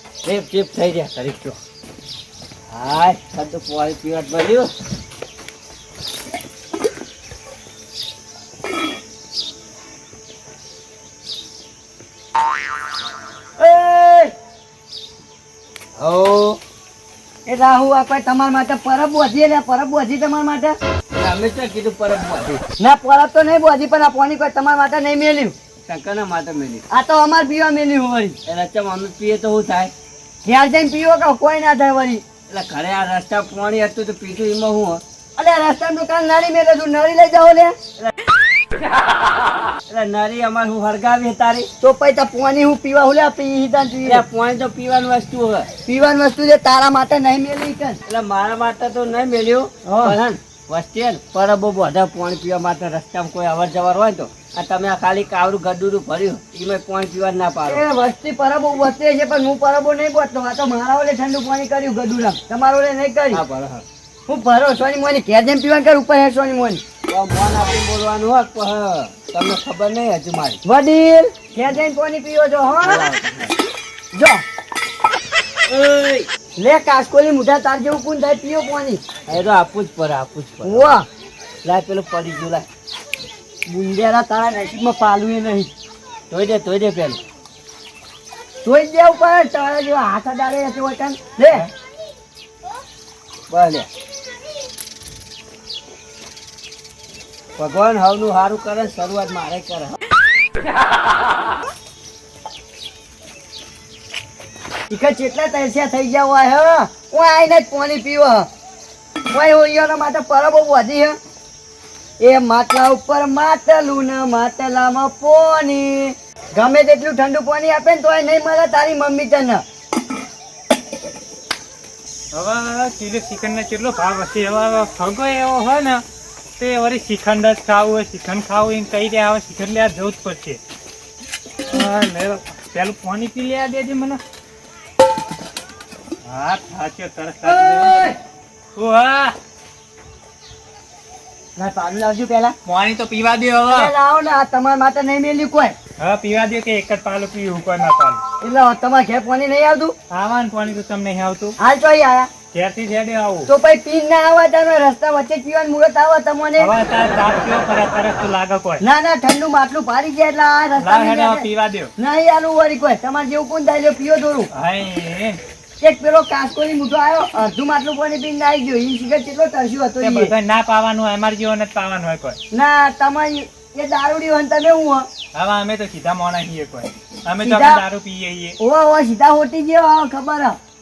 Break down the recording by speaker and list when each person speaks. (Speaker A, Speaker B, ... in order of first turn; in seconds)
Speaker A: 0.2-1.6, 2.7-4.7, 13.7-14.3, 16.0-16.6, 21.1-22.6, 25.9-26.8, 28.4-29.9, 32.5-35.0, 39.9-41.7, 44.0-45.7, 48.0-57.8, 63.3-63.8, 67.1-70.6, 72.8-73.5, 75.7-76.3, 79.3-81.0, 81.6-82.7, 86.3-87.2, 93.5-93.9, 97.6-100.0
Speaker B: 13.6-14.3, 17.4-20.8, 22.8-25.6, 26.9-28.4, 30.4-32.2, 35.4-37.8, 41.8-44.2, 45.9-48.0, 49.8-50.2, 57.7-63.4, 64.3-66.8, 70.6-73.1, 74.1-74.4, 76.6-79.0, 80.6-81.0, 83.7-85.7, 88.6-91.7, 104.9-108.5, 109.3-111.2, 112.2-119.6, 137.4-138.2, 141.6-142.6, 143.7-145.8, 148.4-149.9, 151.6-152.3, 153.5-156.7, 158.8-161.5, 162.0-164.5, 165.8-170.3, 172.5-175.1, 177.4-177.8, 178.6-180.6
Speaker C: 122.3-126.0, 126.6-130.6, 131.7-134.2, 136.2-138.2, 138.8-139.4, 142.7-143.9, 146.0-148.2, 150.1-151.6, 152.5-153.5, 156.6-158.8, 160.8-161.9, 164.5-165.4, 170.0-172.4, 175.3-178.6